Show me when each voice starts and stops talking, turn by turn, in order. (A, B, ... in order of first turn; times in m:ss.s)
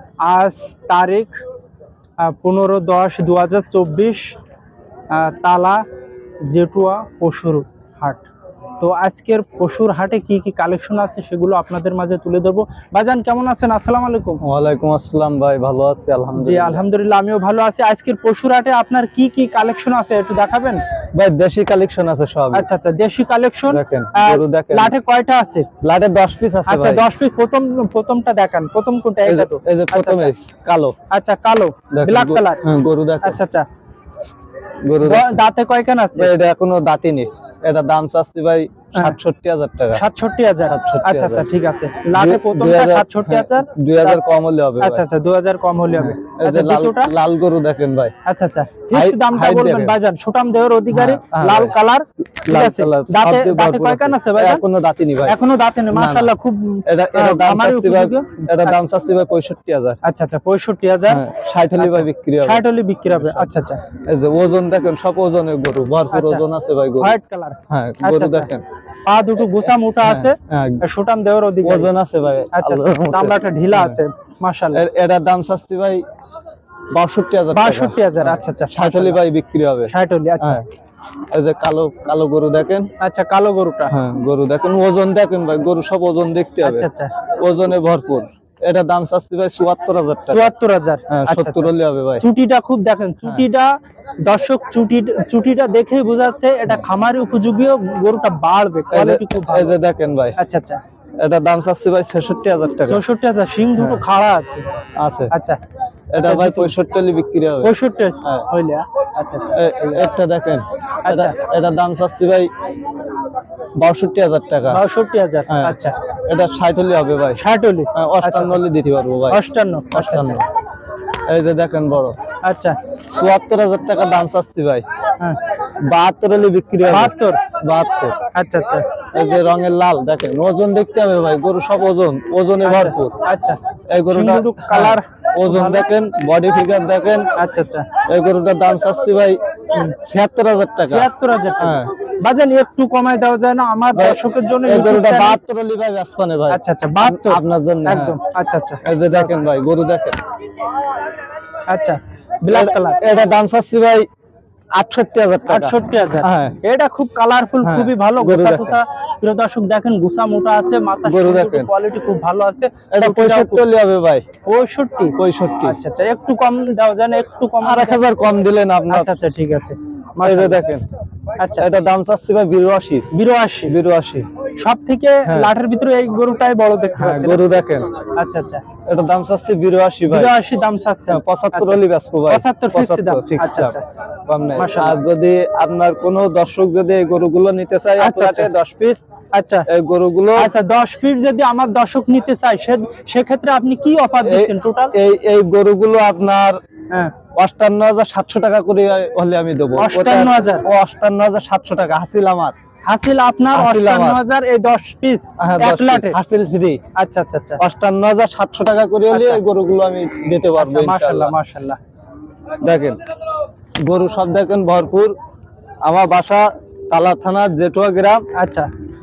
0:00.2-0:01.4 A
0:02.2-0:04.4 A
0:05.1-0:05.8 A
0:06.4-0:08.3 A
0:08.8-0:14.4 A
0:14.4-0:16.8 B
0:16.4-0:20.8 A
0:21.1-0:22.7 B
0:22.5-0:25.7 A
0:23.7-0:24.9 B
0:25.8-0:27.0 B
0:26.7-0:30.3 A
0:29.2-0:30.9 B
0:31.1-0:32.6 A
0:31.9-0:33.4 B
0:33.2-0:33.6 A
0:34.8-0:35.3 B
0:35.0-0:36.3 A
0:36.2-0:40.0 B
0:39.9-0:44.2 A
0:40.7-0:41.5 B
0:42.1-0:45.0 B
0:44.8-0:47.1 A
0:46.0-0:48.1 B
0:48.2-0:54.6 A
0:48.9-0:50.0 B
0:50.9-0:51.7 B
0:52.4-0:55.4 B
0:55.2-0:58.8 A
0:55.9-0:56.3 B
0:56.8-1:00.0 B
1:00.0-1:01.2 A
1:01.1-1:07.2 B
1:01.8-1:03.8 A
1:06.1-1:06.4 A
1:07.0-1:08.5 A
1:07.7-1:08.6 B
1:09.0-1:11.9 A
1:09.4-1:10.8 B
1:11.6-1:14.0 B
1:12.5-1:14.8 A
1:14.7-1:16.0 B
1:16.9-1:20.6 B
1:17.5-1:19.2 A
1:19.9-1:20.6 A
1:21.3-1:22.9 B
1:23.0-1:23.9 A
1:23.9-1:26.9 B
1:26.6-1:27.1 A
1:27.4-1:30.5 B
1:30.3-1:39.7 A
1:31.1-1:32.2 B
1:38.9-1:40.4 B
1:40.4-1:40.8 A
1:41.2-1:43.0 B
1:42.8-1:44.6 A
1:43.8-1:44.0 B
1:45.0-1:45.3 B
1:45.3-1:45.6 A
1:46.1-1:48.4 B
1:46.2-1:46.7 A
1:47.6-1:50.0 A
1:49.5-1:52.5 B
1:51.0-1:51.4 A
1:53.8-1:54.8 B
1:54.7-1:55.9 A
1:55.5-1:57.4 B
1:57.4-1:58.6 A
1:57.9-1:59.4 B
1:59.3-2:00.4 A
1:59.9-2:00.4 B
2:01.2-2:02.2 B
2:02.4-2:02.8 A
2:03.1-2:04.8 B
2:05.8-2:08.2 B
2:06.8-2:07.4 A
2:08.3-2:08.9 A
2:09.1-2:13.2 B
2:12.6-2:13.6 A
2:13.9-2:17.3 B
2:14.1-2:15.8 A
2:17.3-2:17.9 A
2:18.0-2:19.4 B
2:19.9-2:21.9 B
2:20.8-2:25.4 A
2:23.9-2:28.2 B
2:26.5-2:29.4 A
2:28.8-2:30.2 B
2:31.7-2:33.0 A
2:32.5-2:34.0 B
2:34.7-2:36.6 B
2:35.5-2:43.6 A
2:37.6-2:38.8 B
2:41.0-2:41.7 B
2:42.9-2:44.2 B
2:44.4-2:48.0 A
2:45.2-2:45.8 B
2:47.6-2:49.1 B
2:48.9-2:50.6 A
2:50.2-2:50.9 B
2:51.4-2:51.7 A
2:51.6-2:53.1 B
2:53.1-2:53.7 A
2:53.7-2:54.3 B
2:54.6-2:57.4 A
2:55.2-2:55.5 B
2:57.0-2:57.9 B
2:58.1-2:58.6 A
2:58.9-3:00.4 B
3:00.1-3:03.8 A
3:01.1-3:09.0 B
3:04.6-3:05.0 A
3:08.0-3:08.5 A
3:09.3-3:09.7 A
3:09.7-3:10.5 B
3:10.4-3:14.9 A
3:14.2-3:16.6 B
3:17.3-3:22.5 B
3:19.8-3:20.6 A
3:22.8-3:26.2 A
3:23.5-3:24.2 B
3:25.4-3:26.8 B
3:26.9-3:27.6 A
3:27.6-3:31.3 B
3:29.1-3:29.4 A
3:30.6-3:31.8 A
3:32.6-3:33.0 B
3:33.8-3:35.1 B
3:35.8-3:38.2 B
3:38.3-3:38.7 A